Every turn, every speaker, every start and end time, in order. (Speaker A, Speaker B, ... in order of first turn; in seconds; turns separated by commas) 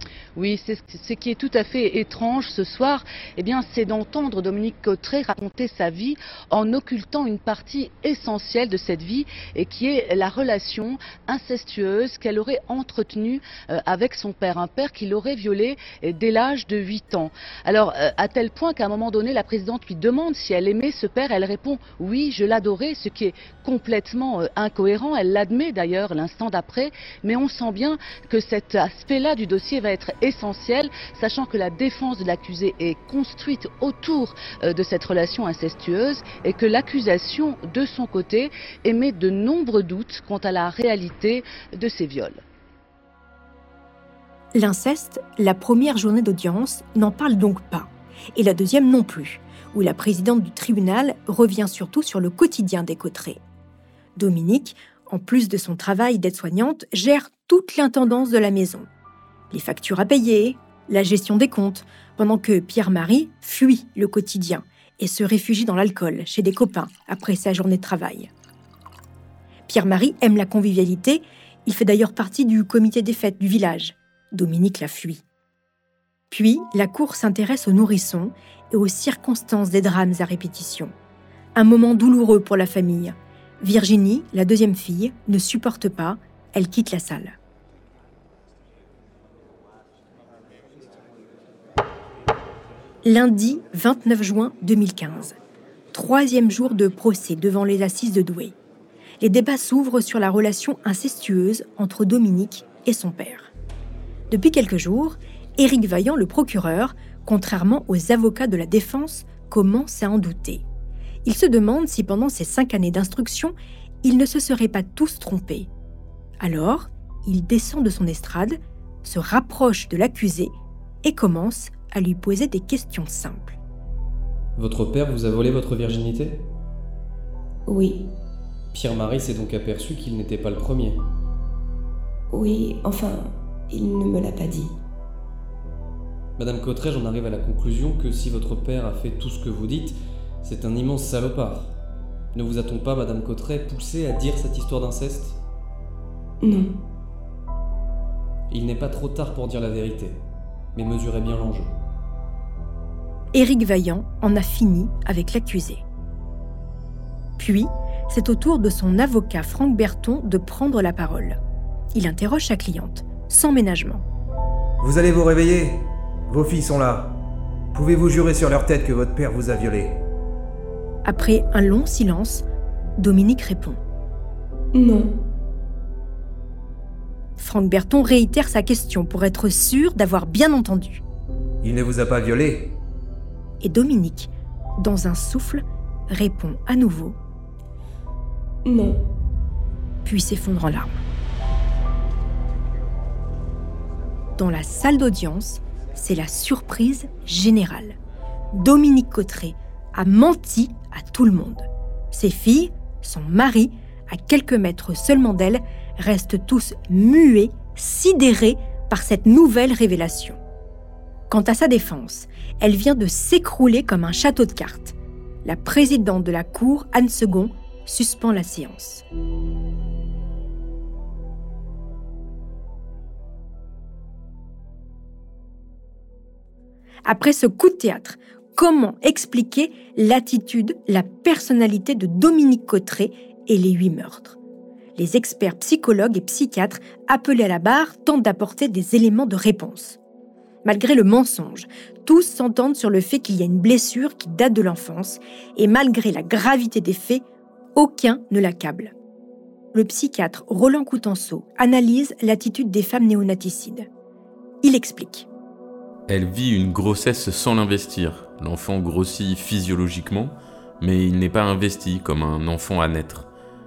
Speaker A: 0.3-42.4, Speaker B: 44.5-53.4, Speaker B: 54.2-58.9, Speaker B: 59.5-68.3, Speaker B: 69.7-75.2, Speaker B: 76.3-80.9, Speaker B: 81.5-87.3, Speaker B: 93.0-95.3, Speaker B: 95.9-98.5, Speaker B: 99.2-103.5, Speaker B: 104.3-110.6, Speaker B: 111.2-115.7, Speaker B: 116.4-120.5, Speaker B: 121.0-123.6, Speaker C: 124.6-126.4, Speaker D: 127.7-128.0, Speaker C: 128.7-131.0, Speaker D: 132.3-134.7, Speaker C: 136.4-141.8, Speaker C: 142.3-145.4, Speaker D: 146.4-146.7, Speaker C: 148.5-150.2, Speaker C: 150.7-151.7, Speaker B: 153.3-155.8, Speaker B: 157.4-161.4, Speaker B: 161.9-164.0, Speaker E: 164.8-167.1, Speaker E: 167.7-170.0, Speaker B: 171.0-172.4, Speaker B: 173.0-173.8, Speaker D: 174.7-175.1, Speaker B: 177.4-181.0, Speaker E: 181.6-182.7, Speaker B: 183.6-187.2, Speaker D: 188.6-189.0, Speaker B: 190.0-191.0, Speaker B: 194.4-198.0, Speaker B: 198.5-210.4, Speaker B: 211.3-219.0, Speaker B: 227.0-234.4, Speaker B: 235.0-240.0, Speaker B: 240.6-247.2, Speaker B: 247.7-248.9, Speaker B: 249.7-253.9, Speaker B: 254.6-255.3, Speaker F: 256.1-263.3